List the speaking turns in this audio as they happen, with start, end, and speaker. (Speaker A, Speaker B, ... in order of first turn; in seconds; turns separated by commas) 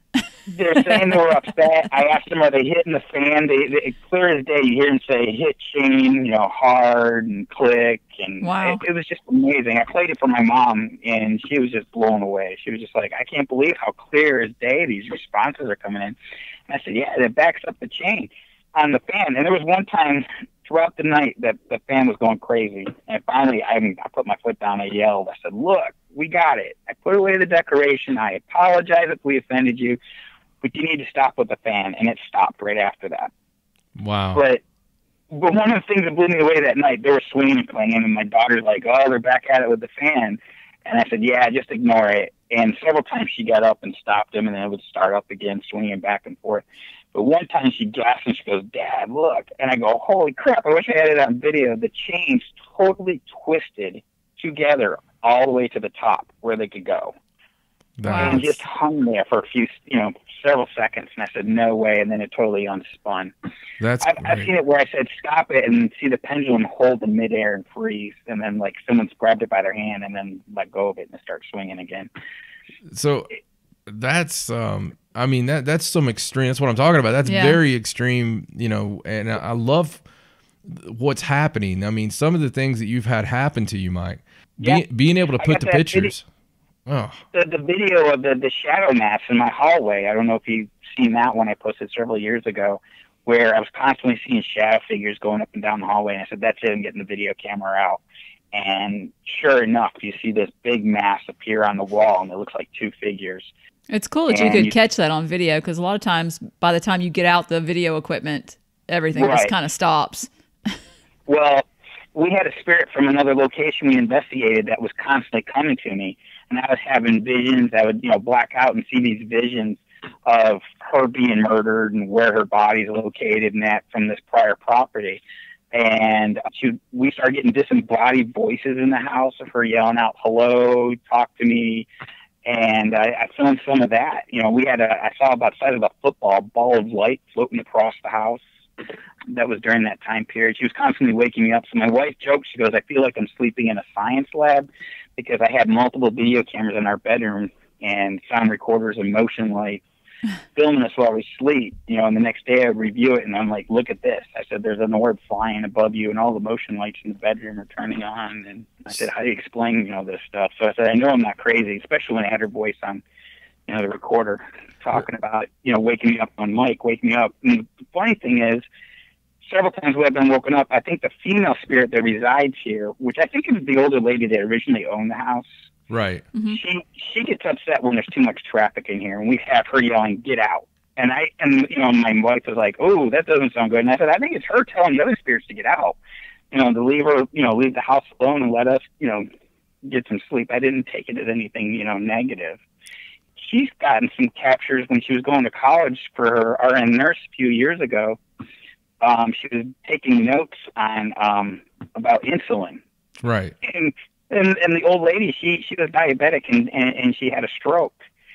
Speaker A: 0.5-16.1, Speaker B: 0.8-1.1, Speaker B: 8.4-8.8, Speaker A: 16.7-30.0, Speaker A: 30.6-33.3, Speaker C: 34.0-34.4, Speaker A: 34.4-34.6, Speaker A: 35.3-57.1, Speaker C: 58.0-58.5, Speaker B: 58.0-58.5, Speaker A: 58.2-63.3, Speaker C: 63.8-64.5, Speaker A: 64.0-72.1, Speaker C: 72.9-73.3, Speaker C: 73.9-80.0, Speaker B: 77.3-77.6, Speaker C: 80.6-86.2, Speaker A: 85.4-86.1, Speaker C: 86.9-87.2, Speaker A: 87.3-103.5, Speaker B: 103.9-110.3, Speaker A: 104.3-104.7, Speaker A: 109.2-109.5, Speaker A: 111.3-125.2, Speaker A: 125.7-131.9, Speaker A: 132.4-138.4, Speaker A: 139.3-149.8, Speaker A: 150.5-163.0, Speaker A: 163.7-168.6, Speaker A: 169.4-175.5, Speaker C: 175.9-176.2, Speaker B: 176.3-176.6, Speaker A: 176.5-186.0, Speaker A: 186.5-189.2, Speaker A: 189.8-192.6, Speaker A: 193.3-198.2, Speaker A: 199.0-202.8, Speaker C: 203.2-203.5, Speaker A: 203.6-208.0